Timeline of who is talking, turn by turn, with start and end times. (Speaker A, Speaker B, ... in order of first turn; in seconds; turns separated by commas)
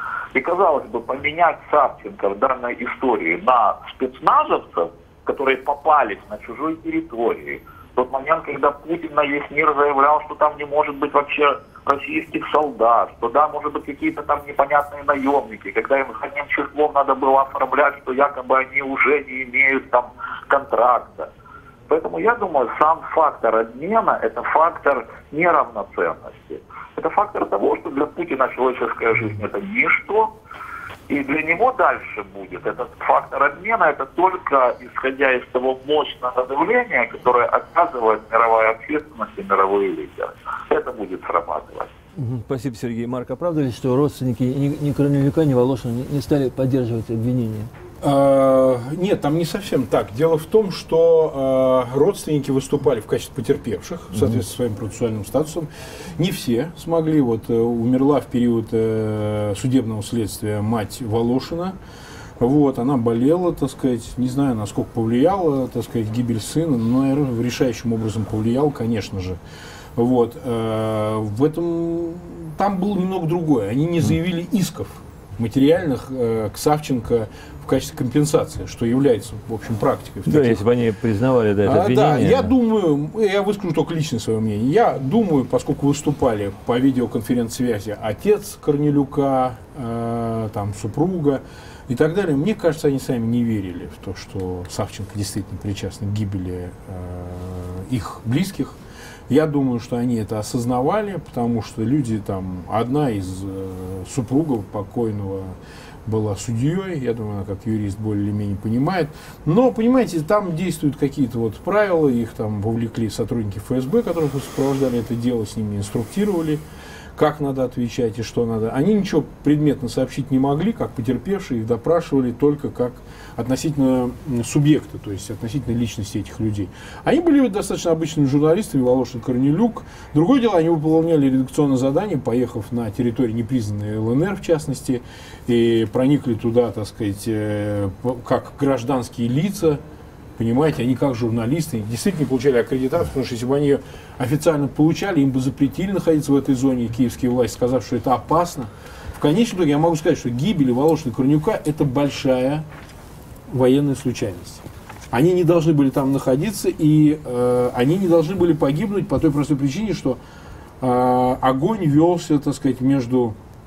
Speaker A: 0.3-21.3, Speaker A: 21.9-30.3, Speaker A: 31.1-41.9, Speaker B: 42.1-47.7, Speaker C: 48.0-61.7, Speaker B: 54.1-54.4, Speaker C: 62.4-69.4, Speaker C: 70.0-80.6, Speaker B: 80.2-82.5, Speaker C: 81.6-98.8, Speaker C: 99.3-116.6, Speaker C: 117.2-139.8, Speaker C: 140.4-152.6, Speaker C: 153.5-160.2, Speaker C: 160.8-163.3